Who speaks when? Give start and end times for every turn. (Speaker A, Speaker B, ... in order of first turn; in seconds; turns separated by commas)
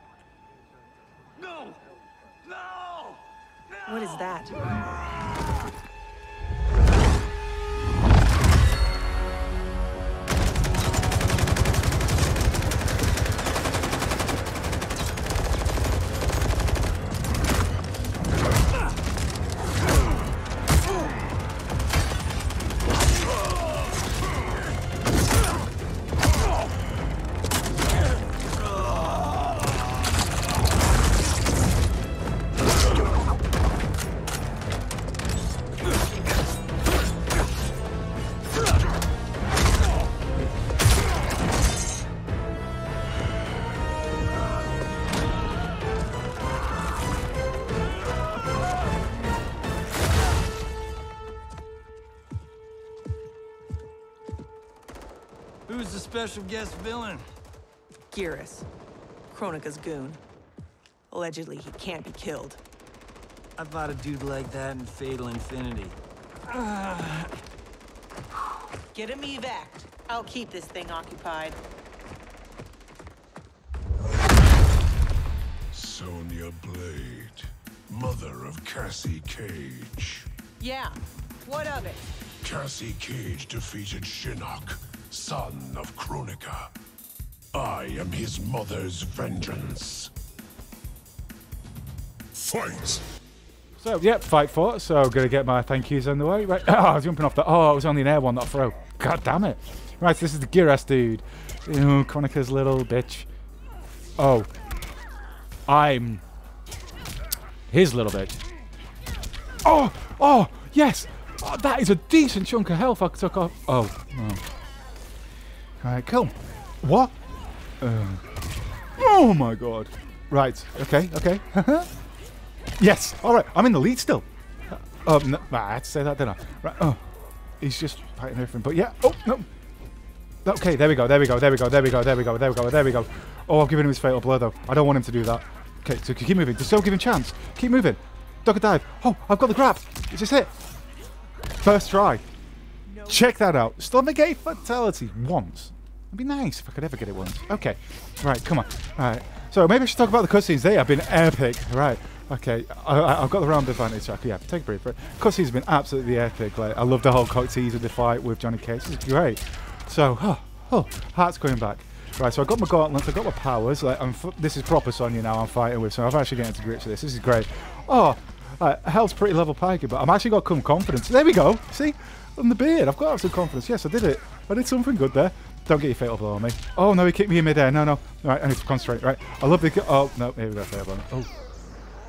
Speaker A: 3.9-4.6, Speaker B: 55.7-57.2, Speaker A: 58.1-58.7, Speaker A: 59.3-60.2, Speaker A: 61.1-62.6, Speaker B: 63.6-66.0, Speaker B: 66.5-67.3, Speaker A: 68.9-71.6, Speaker C: 75.7-80.3, Speaker A: 80.6-82.1, Speaker C: 82.4-86.7, Speaker C: 87.5-90.1, Speaker C: 92.3-93.0, Speaker D: 93.8-103.3, Speaker D: 104.2-104.5, Speaker D: 105.7-106.2, Speaker D: 107.7-108.4, Speaker D: 109.6-114.4, Speaker D: 115.8-117.1, Speaker D: 117.8-118.2, Speaker D: 119.0-121.9, Speaker D: 122.8-127.0, Speaker D: 127.6-129.5, Speaker D: 130.4-140.5, Speaker D: 141.6-142.2, Speaker D: 143.1-181.3